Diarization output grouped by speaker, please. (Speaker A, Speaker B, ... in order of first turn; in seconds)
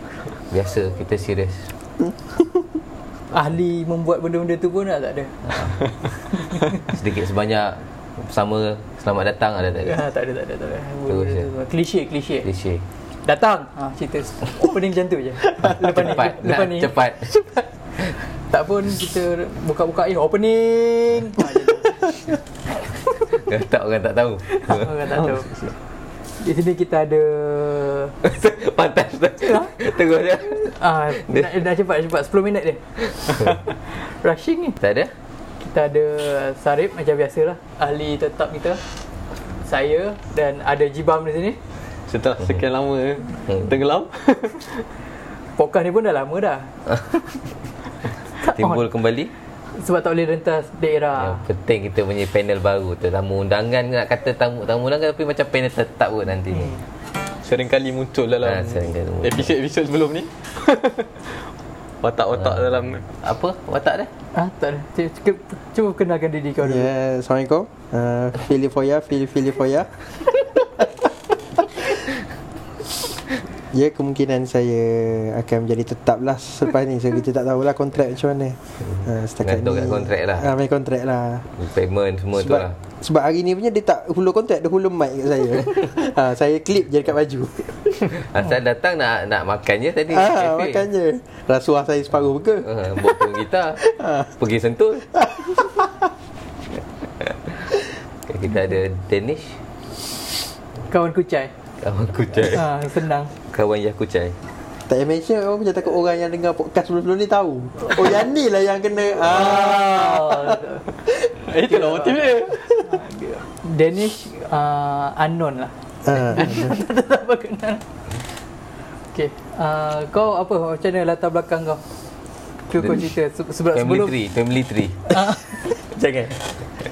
Speaker A: 0.5-1.7, 6.9-10.0, 11.1-11.5, 12.4-12.8, 15.6-17.4, 23.4-24.9, 28.2-31.5, 34.8-35.1, 48.4-49.3, 51.2-56.8, 58.4-59.5, 62.3-64.1, 79.4-80.5, 81.6-82.8, 88.1-90.9, 92.6-93.8, 94.4-95.1, 98.3-99.6, 101.8-102.7, 103.5-104.3, 123.7-125.0
Speaker B: 3.3-5.6, 9.8-12.5, 13.2-16.9, 18.5-22.1, 24.5-25.5, 26.4-28.1, 29.4-29.7, 30.6-34.8, 35.6-38.8, 39.6-41.6, 45.5-47.2, 48.4-48.9, 49.8-51.4, 56.5-56.8, 64.3-66.9, 100.9-101.5, 102.5-103.3, 109.3-110.9, 112.7-115.7, 116.3-117.8, 119.1-121.8, 122.7-124.2, 125.1-125.5
Speaker C: 25.4-25.7, 42.1-44.9, 57.4-61.3, 62.0-63.0, 111.3-112.8
Speaker D: 66.6-69.9, 73.7-81.5, 82.3-87.9, 90.1-94.3, 95.1-95.9, 104.9-111.2, 116.0-116.8, 125.1-126.6